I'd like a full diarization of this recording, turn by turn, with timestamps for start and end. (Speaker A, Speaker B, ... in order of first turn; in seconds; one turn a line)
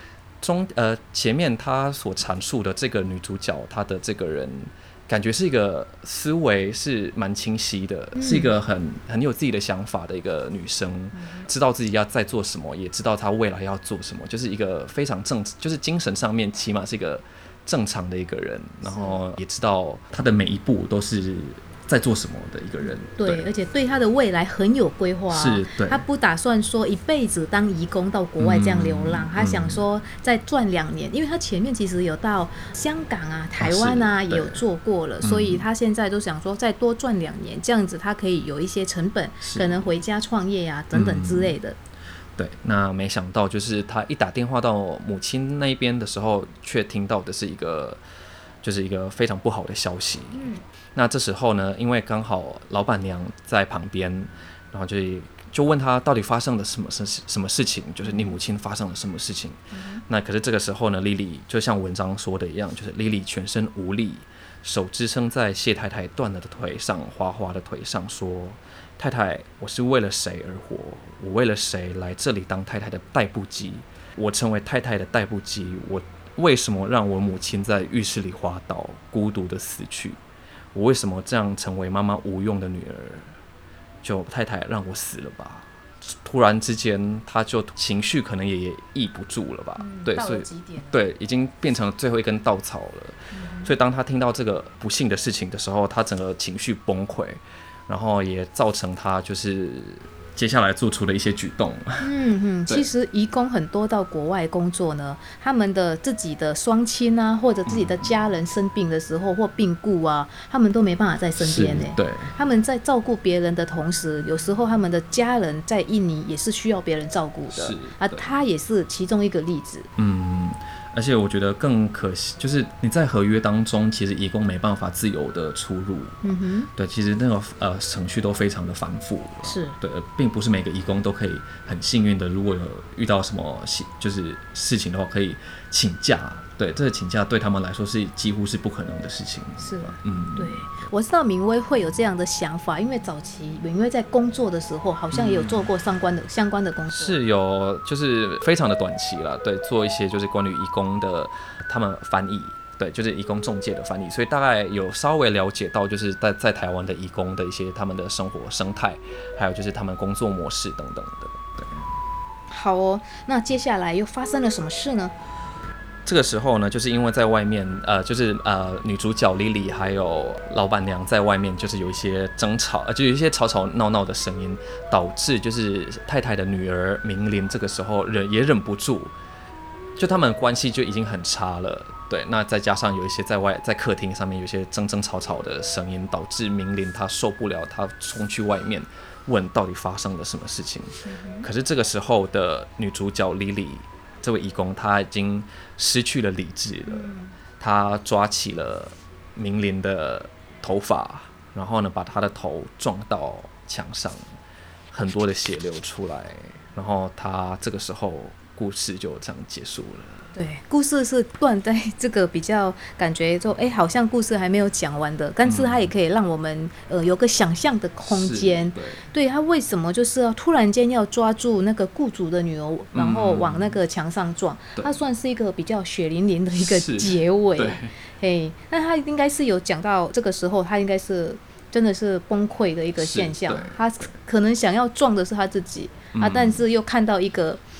Speaker A: 0.4-23.5
Speaker B: 8.1-8.5
Speaker B: 11.1-11.5
Speaker B: 18.8-19.2
Speaker B: 22.8-41.8
Speaker A: 25.3-26.0
Speaker A: 28.4-29.8
Speaker A: 33.6-34.6
Speaker A: 35.2-35.6
Speaker A: 39.4-39.9
Speaker A: 40.9-41.5
Speaker A: 42.4-48.0
Speaker A: 48.6-80.2
Speaker B: 50.3-50.6
Speaker B: 58.0-58.3
Speaker B: 59.7-60.0
Speaker A: 80.7-83.3
Speaker A: 84.0-102.1
Speaker B: 89.8-91.0
Speaker B: 93.3-93.7
Speaker B: 102.0-119.9
Speaker A: 107.7-108.0
Speaker A: 111.4-112.3
Speaker A: 117.5-118.3
Speaker A: 120.0-140.7
Speaker B: 126.2-126.7
Speaker B: 129.4-129.8
Speaker B: 139.6-147.2
Speaker A: 145.1-145.7
Speaker A: 146.9-161.9
Speaker B: 162.5-165.1
Speaker A: 166.0-179.1
Speaker A: 179.9-204.3
Speaker B: 191.0-191.5
Speaker B: 196.8-197.3
Speaker A: 204.9-210.3
Speaker B: 210.3-237.6
Speaker A: 215.4-215.9
Speaker A: 218.1-219.0
Speaker A: 222.9-223.7
Speaker A: 226.5-227.9
Speaker A: 233.0-233.8
Speaker A: 236.1-236.6